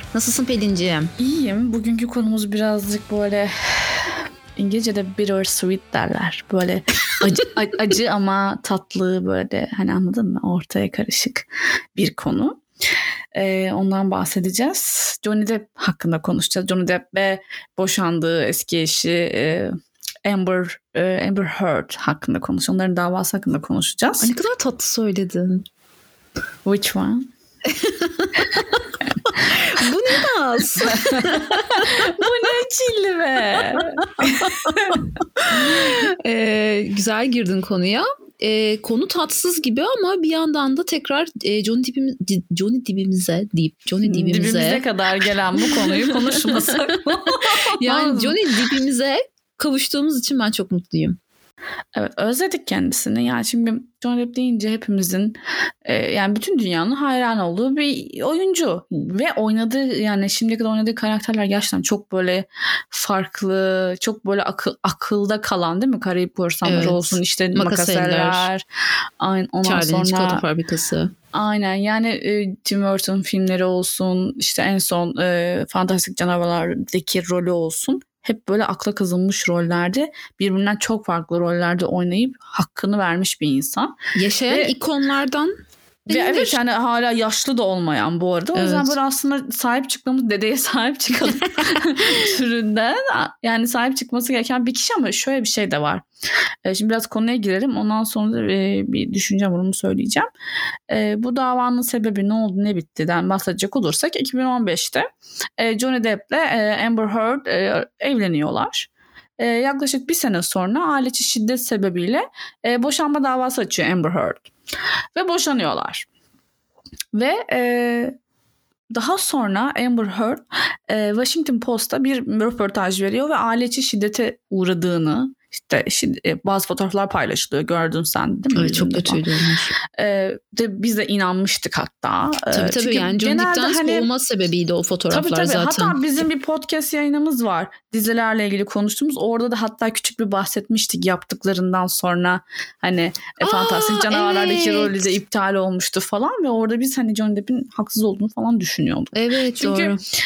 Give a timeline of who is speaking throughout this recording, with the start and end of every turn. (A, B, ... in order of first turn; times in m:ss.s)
0:00.1-0:01.1 A
0:01.2-0:12.6 B
0:13.4-0:19.7 B
0:20.2-0:24.3 B
0:24.2-0:25.6 A
0:26.6-0:27.3 B
0:27.7-0:28.7 A
0:29.3-0:31.7 A
0:30.9-0:35.0 B
0:34.2-0:35.0 A
0:35.6-0:44.8 A
0:44.1-0:48.4 B
0:46.3-0:46.7 A
0:47.8-0:51.2 A
0:52.0-1:08.6 B
1:06.6-1:08.5 A
1:09.2-1:10.4 B
1:09.6-1:11.1 A
1:11.3-1:23.9 B
1:24.2-1:25.5 A
1:24.5-1:24.7 B
1:26.1-1:36.1 B
1:26.1-1:26.6 A
1:28.5-1:29.0 A
1:36.6-1:40.3 B
1:40.9-1:45.1 B
1:45.6-1:54.5 B
1:55.2-1:56.1 B
1:57.1-1:58.1 B
1:58.9-2:09.2 B
2:08.5-2:09.8 A
2:09.9-2:14.1 B
2:12.5-2:16.2 A
2:15.1-2:30.0 B
2:23.4-2:25.1 A
2:29.1-2:30.0 A